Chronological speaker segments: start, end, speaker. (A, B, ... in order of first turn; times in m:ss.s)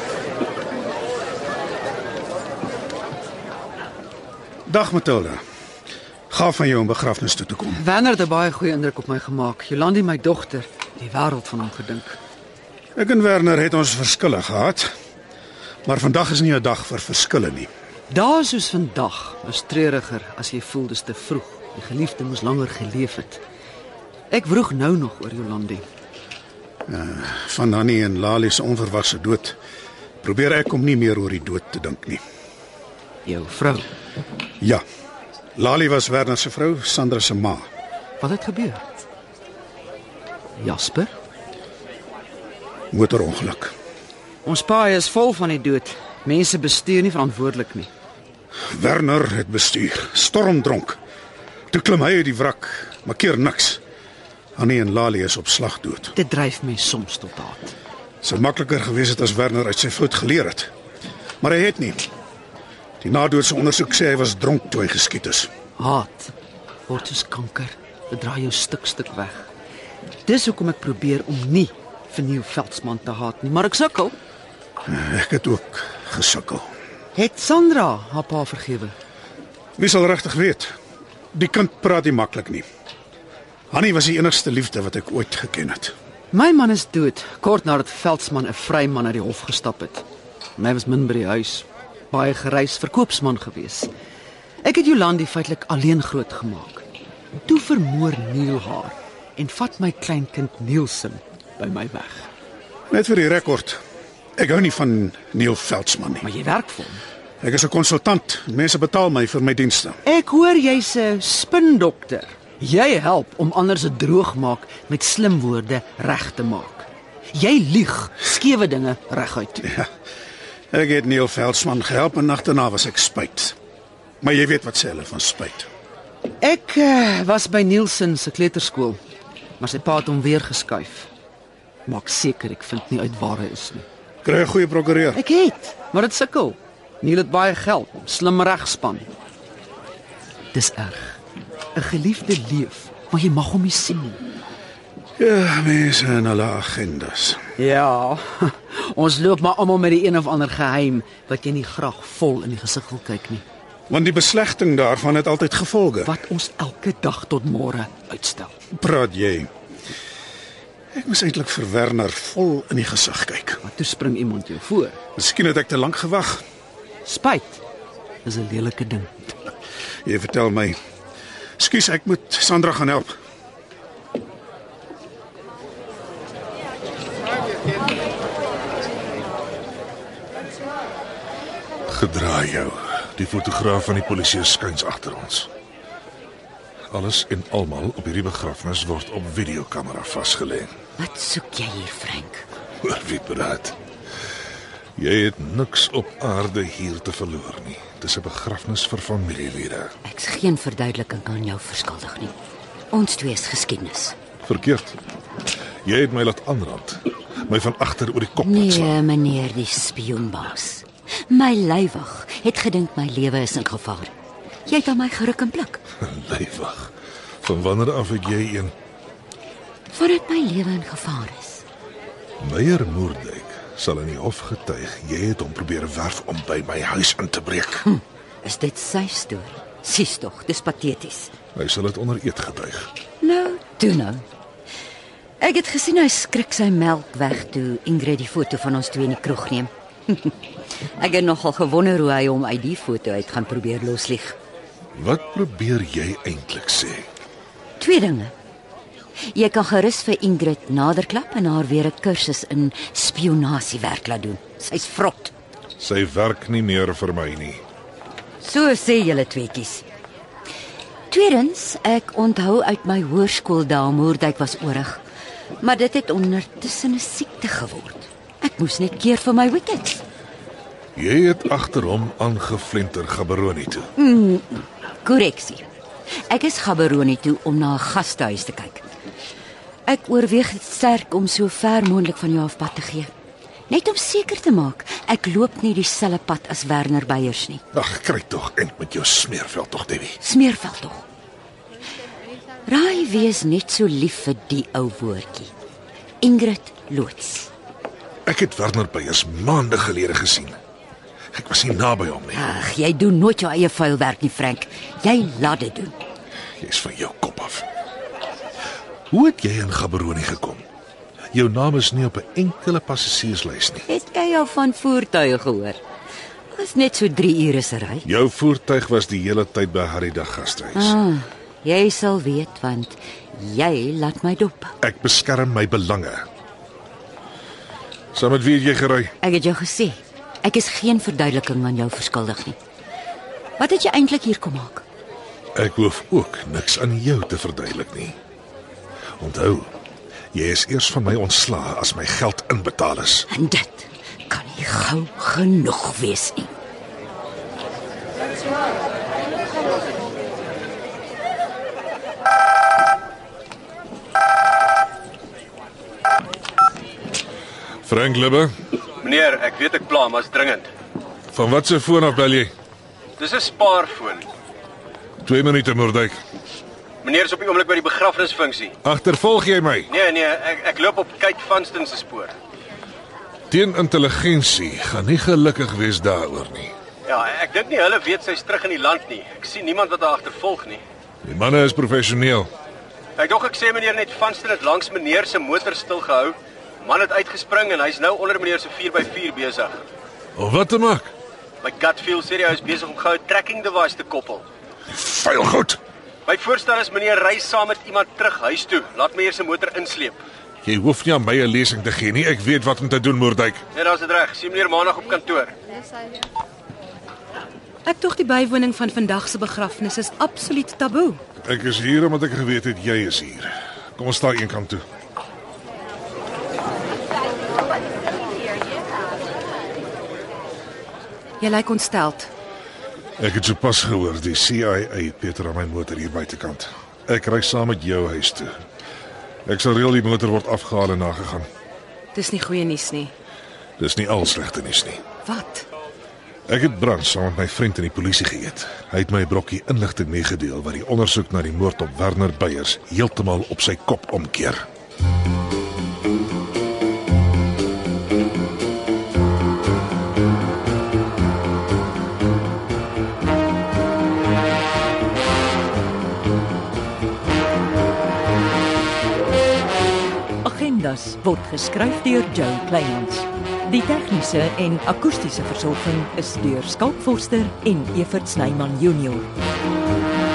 0:04.7-0:05.4 A
0:06.3-0:07.8 A
0:07.8-0:12.2 B
0:13.0-0:14.9 A
0:15.9-0:17.7 A
0:18.1-0:23.4 B
0:24.3-0:25.8 B
0:26.9-0:29.6 A
0:30.2-0:32.2 A
0:33.2-0:33.9 B
0:35.6-0:37.7 A
0:38.2-0:38.8 B
0:40.6-0:41.1 B
0:42.9-0:43.7 A
0:44.4-0:47.9 B
0:48.7-0:51.0 A
0:51.7-0:53.8 A
0:54.6-0:56.1 A
0:56.2-0:57.8 B
0:58.2-1:00.7 A
1:01.4-1:02.0 A
1:03.0-1:05.5 A
1:05.8-1:06.3 B
1:06.9-1:09.5 B
1:10.3-1:14.2 B
1:14.9-1:16.7 A
1:17.2-1:18.9 B
1:19.8-1:20.8 A
1:21.3-1:22.6 A
1:23.7-1:25.9 A
1:26.3-1:30.1 B
1:30.6-1:33.9 B
1:34.6-1:36.8 B
1:37.4-1:42.3 B
1:42.9-1:43.8 A
1:44.4-1:46.3 A
1:46.2-1:47.0 B
1:47.4-1:50.0 A
1:50.1-1:59.6 B
2:00.7-2:03.6 A
2:04.2-2:05.7 A
2:06.4-2:09.0 B
2:09.6-2:11.1 B
2:11.9-2:13.8 B
2:14.2-2:15.2 A
2:15.2-2:19.1 B
2:20.5-2:21.2 B
2:21.7-2:24.2 B
2:25.2-2:27.5 A
2:27.6-2:33.4 B
2:33.9-2:36.2 A
2:36.0-2:38.5 B
2:38.7-2:39.5 A
2:40.9-2:43.6 A
2:43.6-2:45.0 B
2:45.2-2:46.4 A
2:47.1-2:47.6 B
2:48.3-2:49.5 B
2:50.0-2:50.8 A
2:51.6-2:53.1 A
3:01.9-3:05.5 C
3:06.9-3:10.7 C
3:11.0-3:12.4 D
3:12.8-3:13.8 C
3:15.0-3:19.9 C
3:20.0-3:22.3 D
3:22.9-3:24.2 D
3:24.4-3:25.0 C
3:25.8-3:28.9 C
3:28.4-3:34.1 D
3:34.7-3:35.8 D
3:36.0-3:36.9 C
3:37.4-3:38.7 C
3:39.9-3:41.6 D
3:42.4-3:47.8 C
3:47.9-3:51.3 D
3:51.6-3:52.9 C
3:53.2-3:54.2 D
3:55.4-4:00.3 D
4:01.0-4:04.4 D
4:04.9-4:07.1 C
4:07.8-4:08.3 D
4:09.3-4:15.3 D
4:15.8-4:17.6 C
4:18.4-4:19.8 D
4:21.1-4:25.0 D
4:25.6-4:30.0 D
4:31.0-4:33.9 C
4:34.0-4:35.6 D
4:36.3-4:38.8 D
4:39.9-4:43.1 D
4:43.7-4:47.6 D
4:47.7-4:50.2 C
4:50.2-4:51.0 D
4:52.7-4:55.5 D
4:56.2-4:57.5 D
4:58.3-5:00.6 C
5:01.3-5:02.4 C
5:02.3-5:05.9 D
5:06.6-5:07.6 C
5:09.1-5:10.6 C
5:11.3-5:13.8 C
5:13.9-5:15.8 D
5:16.5-5:18.1 D
5:18.0-5:21.0 C
5:20.7-5:24.8 D
5:24.8-5:26.3 C
5:28.1-5:29.1 C
5:29.2-5:32.6 D
5:33.6-5:34.8 D
5:35.6-5:38.2 C
5:39.2-5:39.7 C
5:40.3-5:43.3 C
5:43.3-5:46.5 D
5:57.8-5:58.5 C
5:59.0-6:00.7 E
6:01.3-6:02.5 C
6:03.2-6:04.3 E
6:05.2-6:06.2 C
6:07.0-6:08.8 E
6:08.8-6:09.9 C
6:09.9-6:12.3 E
6:13.5-6:16.7 C
6:17.1-6:20.8 E
6:21.2-6:22.5 C
6:23.2-6:29.8 E
6:30.4-6:31.1 C
6:31.6-6:34.4 E
6:34.9-6:35.8 C
6:36.3-6:40.2 E
6:40.6-6:43.6 C
6:43.8-6:45.5 E
6:47.9-6:51.2 F
6:51.4-6:54.8 C
7:01.4-7:02.2 F
7:03.2-7:08.5 C
7:09.4-7:11.5 C
7:12.2-7:13.1 F
7:13.8-7:15.0 C
7:15.3-7:15.6 F
7:16.5-7:24.6 C
7:40.4-7:49.3 G